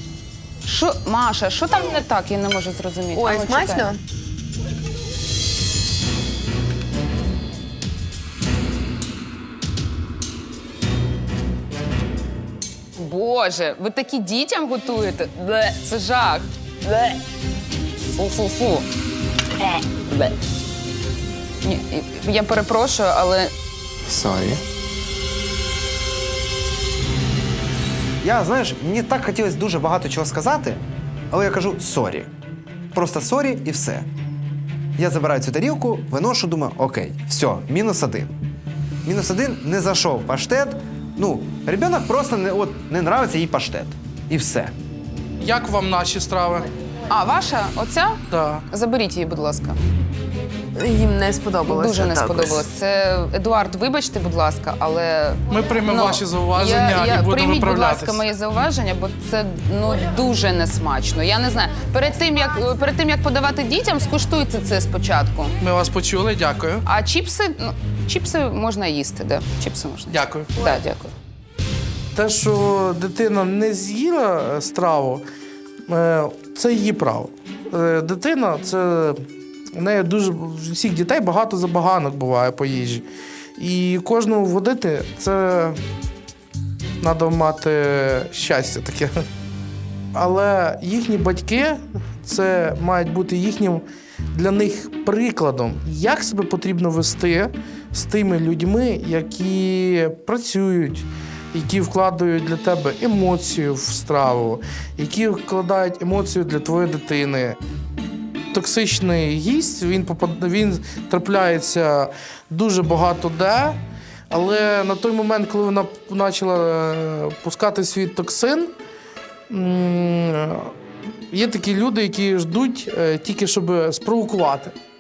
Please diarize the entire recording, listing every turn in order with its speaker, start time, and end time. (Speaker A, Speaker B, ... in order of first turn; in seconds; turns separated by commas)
Speaker A: 0.6-3.9, Speaker B: 3.1-4.0, Speaker A: 13.0-17.2, Speaker A: 18.1-18.8, Speaker A: 19.6-20.3, Speaker A: 21.6-23.5, Speaker C: 28.2-32.3, Speaker C: 32.9-34.1, Speaker C: 35.0-38.3, Speaker C: 39.0-44.7, Speaker D: 45.4-46.7, Speaker A: 47.1-49.8, Speaker D: 48.3-48.6, Speaker B: 50.8-52.6, Speaker A: 51.6-65.5, Speaker D: 55.5-58.3, Speaker D: 65.6-66.8, Speaker A: 66.8-71.1, Speaker D: 70.1-70.6, Speaker D: 72.1-75.2, Speaker D: 75.9-79.2, Speaker D: 79.8-83.0, Speaker D: 83.6-85.8, Speaker D: 87.0-89.2, Speaker D: 90.1-107.6, Speaker D: 108.5-113.8, Speaker D: 114.3-118.7, Speaker D: 119.5-120.7, Speaker D: 121.3-124.7